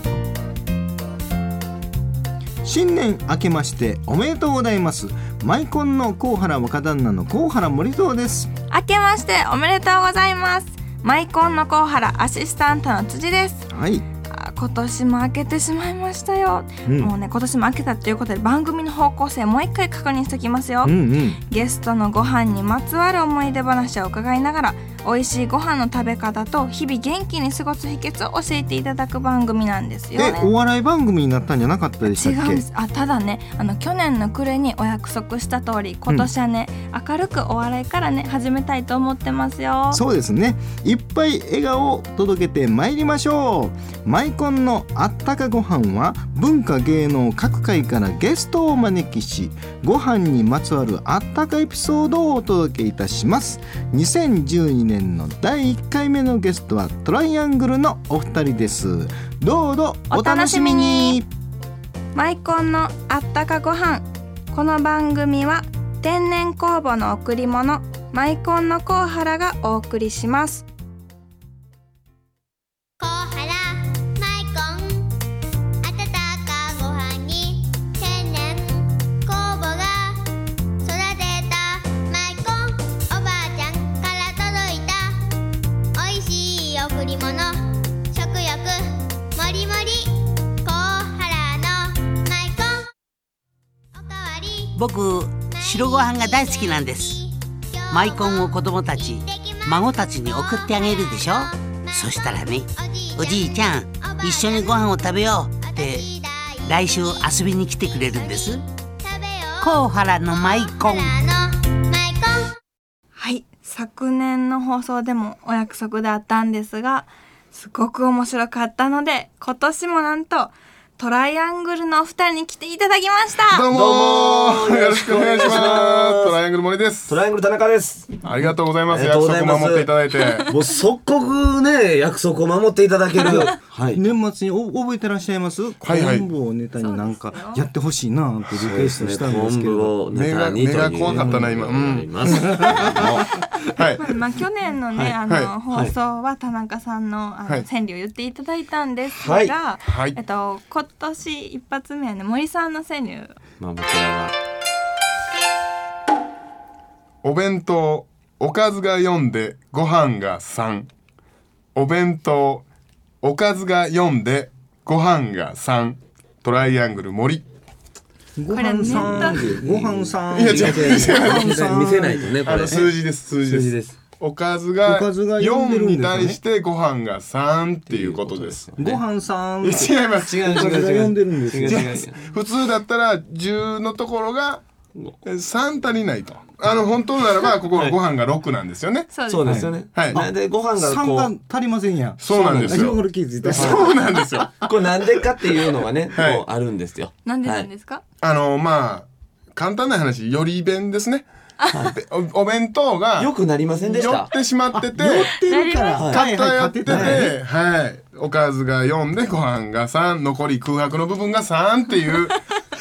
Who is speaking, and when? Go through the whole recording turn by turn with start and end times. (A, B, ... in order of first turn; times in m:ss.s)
0:02.6-0:08.5 A
0:08.7-0:13.7 B
0:13.7-0:14.0 A
0:14.3-0:20.9 B
0:16.9-0:17.1 A
0:20.8-0:21.4 A
0:21.5-0:30.5 B
0:30.2-0:32.6 A
0:32.1-0:40.0 B
0:39.9-1:01.3 A
1:00.1-1:01.2 B
1:02.2-1:10.7 B
1:13.0-1:15.1 C
1:15.8-1:20.2 C
1:20.8-1:25.2 C
1:26.0-1:32.9 C
1:33.9-1:34.8 C
1:34.8-1:37.2 D
1:35.5-1:52.6 C
1:37.9-1:46.1 D
1:46.7-1:48.6 D
1:49.6-1:51.1 D
1:53.2-2:03.7 B
2:03.5-2:07.2 E
2:03.7-2:06.4 F
2:07.1-2:08.2 F
2:08.2-2:10.5 E
2:08.8-2:14.0 F
2:13.2-2:20.0 A
2:15.8-2:16.3 E
2:16.8-2:17.6 B
2:18.6-2:23.7 F
2:20.1-2:22.2 E
2:21.1-2:21.5 A
2:22.3-2:22.8 A
2:24.0-2:33.3 B
2:24.9-2:25.2 F
2:25.2-2:25.5 E
2:25.7-2:25.9 F
2:29.1-2:29.6 F
2:29.8-2:30.2 E
2:33.6-2:34.3 F
2:37.2-2:40.9 E
2:41.8-2:42.6 E
2:43.2-2:47.4 E
2:48.4-2:52.3 A
2:48.5-2:49.5 B
2:48.9-2:54.0 F
2:50.3-2:51.6 E
2:52.4-2:58.7 E
2:54.8-2:56.4 A
2:57.9-2:59.0 F
2:58.8-3:01.9 A
2:59.6-3:02.3 F
2:59.8-3:00.6 E
3:01.6-3:04.6 E
3:05.2-3:09.1 E
3:09.1-3:09.6 B
3:09.3-3:11.3 F
3:09.4-3:14.1 A
3:09.9-3:10.2 E
3:12.2-3:13.0 E
3:12.3-3:17.7 F
3:13.5-3:14.5 E
3:16.1-3:16.4 E
3:17.2-3:18.0 B
3:18.2-3:21.3 E
3:21.8-3:23.3 E
3:23.2-3:24.3 F
3:23.9-3:25.3 E
3:24.7-3:27.3 A
3:25.5-3:26.1 B
3:26.0-3:26.2 F
3:26.1-3:32.4 E
3:26.9-3:27.3 F